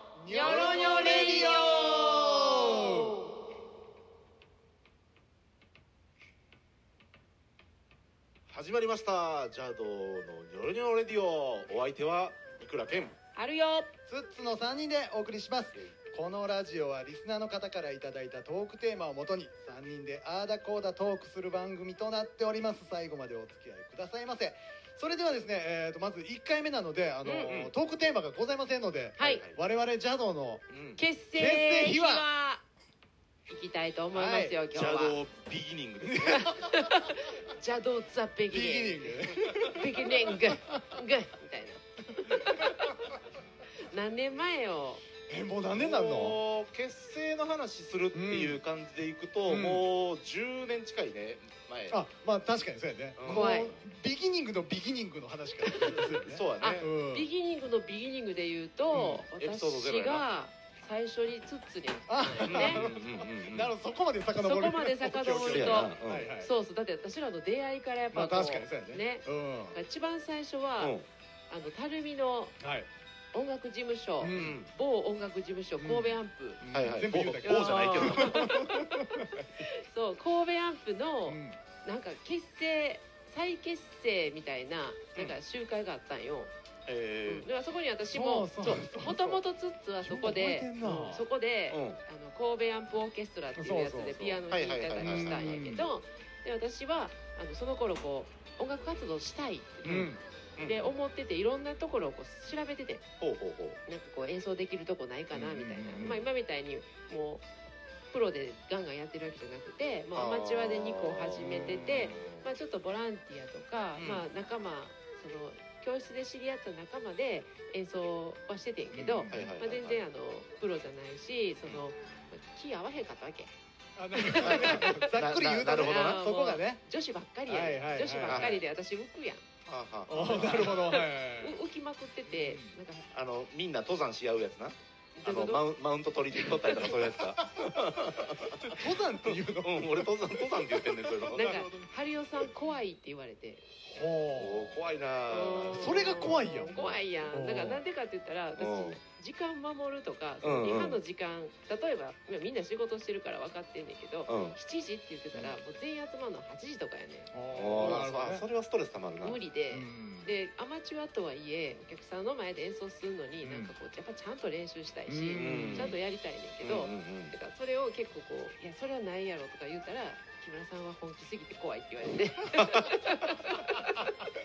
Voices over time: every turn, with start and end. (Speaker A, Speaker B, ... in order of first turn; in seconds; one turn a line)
Speaker A: 0.2-3.2
Speaker B: 0.3-3.0
Speaker C: 8.5-13.2
Speaker B: 13.3-13.9
Speaker A: 14.1-30.7
Speaker C: 15.7-16.0
Speaker B: 27.2-27.6
Speaker C: 27.5-27.7
Speaker B: 29.2-29.4
Speaker C: 29.2-29.6
Speaker C: 30.7-31.0
Speaker B: 31.0-32.6
Speaker A: 31.4-32.3
Speaker B: 33.5-35.2
Speaker A: 34.1-34.6
Speaker C: 34.7-36.5
Speaker A: 36.0-36.7
Speaker B: 36.3-42.6
Speaker A: 38.5-41.0
Speaker A: 42.3-42.7
Speaker B: 43.8-45.0
Speaker A: 45.3-46.4
Speaker C: 45.7-52.0
Speaker A: 48.1-48.6
Speaker A: 49.5-49.9
Speaker A: 51.9-57.3
Speaker C: 53.2-53.6
Speaker B: 53.3-53.8
Speaker B: 55.7-56.0
Speaker C: 55.8-56.9
Speaker B: 56.6-62.9
Speaker C: 58.9-60.3
Speaker A: 58.9-59.2
Speaker A: 62.1-66.5
Speaker C: 62.5-63.7
Speaker B: 64.4-71.0
Speaker C: 65.4-66.3
Speaker A: 68.1-69.8
Speaker C: 70.8-71.1
Speaker B: 71.5-72.6
Speaker A: 72.6-72.9
Speaker B: 73.3-76.6
Speaker A: 74.2-74.6
Speaker C: 74.3-74.7
Speaker A: 75.8-79.5
Speaker C: 76.7-78.5
Speaker B: 77.4-78.9
Speaker B: 79.6-86.5
Speaker A: 81.2-81.6
Speaker C: 86.8-87.5
Speaker B: 87.3-103.0
Speaker A: 88.1-89.4
Speaker A: 90.0-91.3
Speaker C: 91.7-92.0
Speaker A: 93.5-94.3
Speaker C: 94.3-95.7
Speaker A: 95.0-95.9
Speaker A: 99.8-100.2
Speaker C: 100.6-100.9
Speaker C: 103.2-103.8
Speaker B: 103.9-107.4
Speaker A: 105.3-106.3
Speaker B: 108.1-123.5
Speaker C: 110.1-112.5
Speaker A: 111.4-112.2
Speaker C: 114.0-114.2
Speaker A: 118.9-119.5
Speaker C: 119.3-120.0
Speaker A: 124.0-126.8
Speaker B: 124.1-125.0
Speaker C: 124.4-126.2
Speaker B: 125.8-129.4
Speaker A: 127.5-128.6
Speaker C: 128.3-128.6
Speaker C: 129.7-130.9
Speaker A: 130.1-131.6
Speaker B: 130.2-133.1
Speaker A: 132.2-132.8
Speaker C: 133.1-141.6
Speaker B: 135.2-135.7
Speaker B: 136.3-136.9
Speaker A: 137.0-137.4
Speaker A: 138.6-141.9
Speaker B: 141.3-143.6
Speaker A: 143.8-144.8
Speaker C: 144.3-147.1
Speaker B: 145.3-158.0
Speaker A: 145.7-146.8
Speaker A: 147.3-147.8
Speaker C: 148.6-149.0
Speaker C: 150.4-151.0
Speaker C: 154.3-154.6
Speaker A: 157.3-158.4
Speaker C: 157.5-159.4
Speaker B: 159.2-173.9
Speaker A: 159.7-160.3
Speaker A: 163.4-163.7
Speaker A: 165.1-166.0
Speaker C: 165.3-166.0
Speaker C: 166.6-167.3
Speaker A: 173.5-174.2